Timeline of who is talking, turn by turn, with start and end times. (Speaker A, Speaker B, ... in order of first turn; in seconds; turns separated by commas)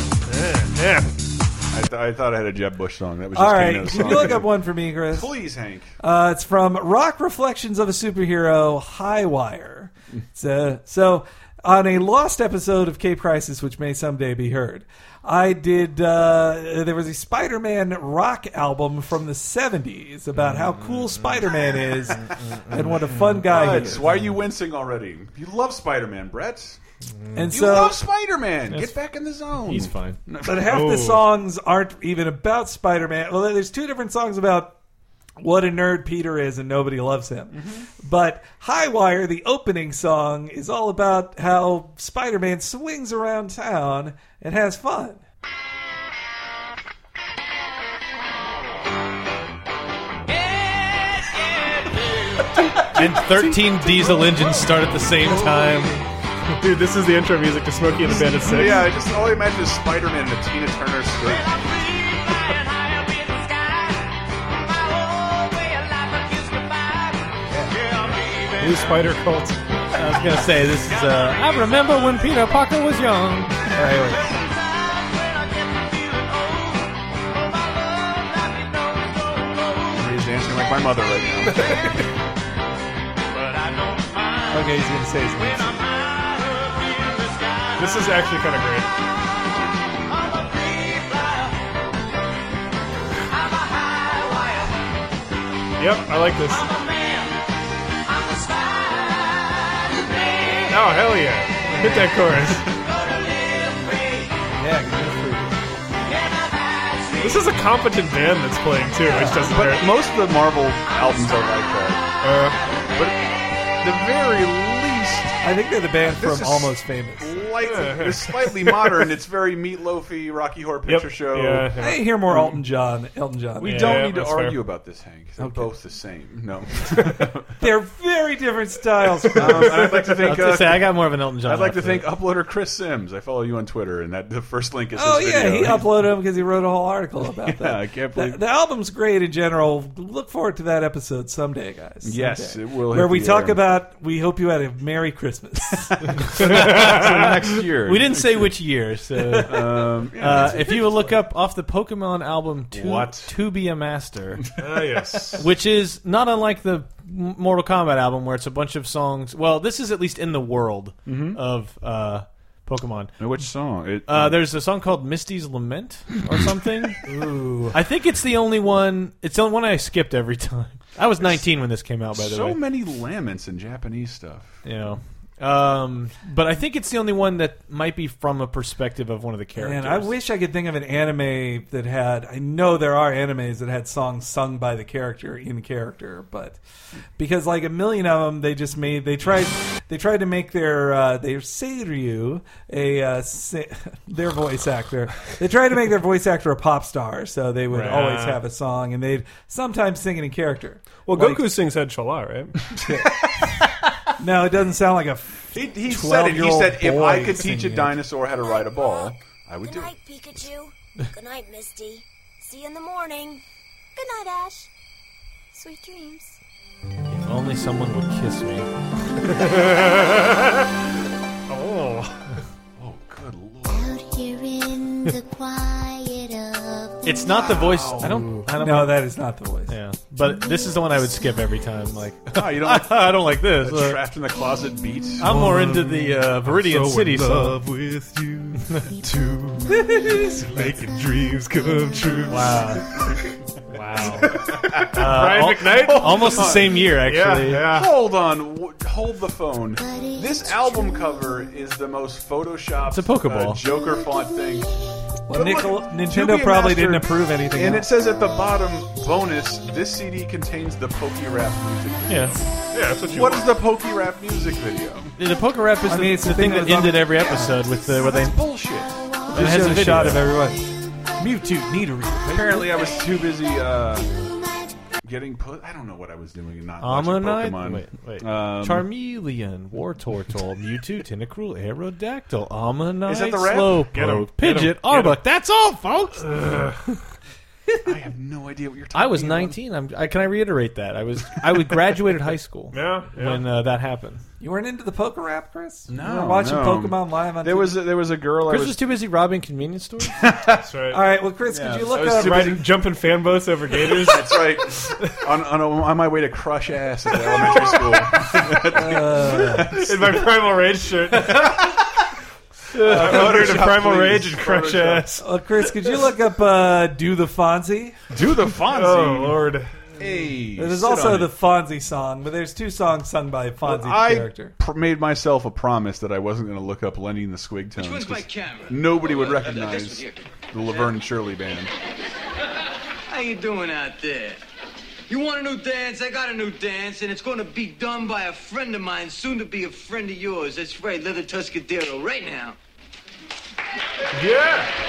Speaker A: 0.2-1.1, Speaker B: 1.7-4.5, Speaker C: 3.3-5.3, Speaker B: 5.1-5.9, Speaker C: 6.0-24.0, Speaker D: 20.4-20.9, Speaker D: 22.7-23.5, Speaker B: 23.4-26.8, Speaker D: 27.2-27.6, Speaker C: 27.3-28.0, Speaker B: 27.5-30.8, Speaker D: 28.7-29.0, Speaker D: 29.5-30.2, Speaker C: 30.4-34.8, Speaker A: 30.6-31.2, Speaker C: 35.4-45.2, Speaker B: 37.5-37.8, Speaker C: 52.8-54.4, Speaker D: 52.9-55.9, Speaker A: 56.6-58.9, Speaker B: 58.4-61.6, Speaker A: 68.6-69.6, Speaker D: 70.0-73.7, Speaker C: 73.7-74.3, Speaker B: 79.9-82.0, Speaker C: 84.5-85.8, Speaker A: 87.8-88.9, Speaker A: 95.8-96.7, Speaker A: 100.7-102.7, Speaker C: 101.7-102.2, Speaker C: 104.5-105.6, Speaker A: 107.2-109.9, Speaker C: 109.1-109.4, Speaker B: 109.1-112.0, Speaker A: 112.2-112.6, Speaker B: 112.9-115.4, Speaker C: 115.4-117.5, Speaker B: 116.1-121.7, Speaker A: 117.6-118.8, Speaker A: 120.9-122.1, Speaker C: 121.8-124.0, Speaker B: 123.6-127.5, Speaker A: 123.6-124.5, Speaker C: 125.4-125.7, Speaker C: 127.6-130.0, Speaker B: 129.3-136.1, Speaker D: 130.2-132.1, Speaker C: 134.9-145.9, Speaker B: 137.3-138.4, Speaker B: 142.0-143.6, Speaker B: 146.2-148.5, Speaker A: 146.4-147.1, Speaker D: 147.8-154.4, Speaker B: 149.4-151.0, Speaker C: 150.5-151.1, Speaker B: 152.7-153.3, Speaker A: 154.6-155.4, Speaker D: 155.4-163.4, Speaker B: 161.1-161.4, Speaker B: 163.2-164.4, Speaker D: 164.1-167.0, Speaker C: 167.1-167.8, Speaker D: 167.7-172.6, Speaker B: 172.1-174.6, Speaker D: 174.6-180.1, Speaker C: 179.6-186.6, Speaker C: 187.2-201.5, Speaker A: 197.7-198.4, Speaker A: 201.0-202.8, Speaker C: 202.8-203.2, Speaker C: 204.2-208.0, Speaker B: 205.5-209.9, Speaker E: 208.6-209.0, Speaker E: 209.6-213.4, Speaker E: 213.9-214.7, Speaker E: 215.5-216.3, Speaker D: 217.1-218.7, Speaker A: 219.2-220.7, Speaker A: 221.5-222.2, Speaker B: 222.8-223.9, Speaker D: 227.0-229.0, Speaker B: 227.3-228.3, Speaker C: 228.5-229.7, Speaker D: 229.7-234.0, Speaker B: 232.3-235.3, Speaker D: 235.2-237.6, Speaker A: 235.2-239.7, Speaker C: 239.7-240.4, Speaker A: 240.2-242.8, Speaker D: 242.3-242.8, Speaker A: 243.7-247.9, Speaker D: 243.7-244.3, Speaker B: 244.7-246.9, Speaker D: 244.9-247.7, Speaker B: 247.6-254.7, Speaker D: 252.9-253.6, Speaker C: 255.3-257.9, Speaker B: 255.3-262.5, Speaker D: 262.1-262.4, Speaker A: 262.7-263.6, Speaker B: 263.1-265.1, Speaker D: 265.2-268.4, Speaker C: 265.9-267.6, Speaker B: 268.0-269.0, Speaker C: 269.3-270.7, Speaker D: 269.3-270.3, Speaker C: 271.2-272.7, Speaker B: 272.2-274.3, Speaker B: 275.0-278.9, Speaker D: 276.8-286.3, Speaker B: 283.1-283.9, Speaker A: 283.9-285.2, Speaker A: 286.2-287.0, Speaker B: 287.8-289.6, Speaker D: 288.9-294.2, Speaker A: 292.7-293.4, Speaker C: 294.4-297.9, Speaker B: 295.9-298.8, Speaker D: 298.5-300.1, Speaker B: 300.1-300.6, Speaker A: 300.6-301.0, Speaker C: 300.9-302.6, Speaker B: 301.5-302.6, Speaker A: 301.9-304.5, Speaker B: 303.8-310.3, Speaker C: 308.7-309.8, Speaker A: 309.7-311.8, Speaker A: 312.7-315.2, Speaker B: 312.8-315.1, Speaker C: 313.1-313.4, Speaker C: 315.2-318.0, Speaker B: 318.1-321.3, Speaker A: 318.7-319.8, Speaker C: 320.6-324.5, Speaker B: 323.6-331.7, Speaker F: 327.8-330.2, Speaker F: 333.1-334.4, Speaker F: 335.1-342.5, Speaker A: 344.1-344.7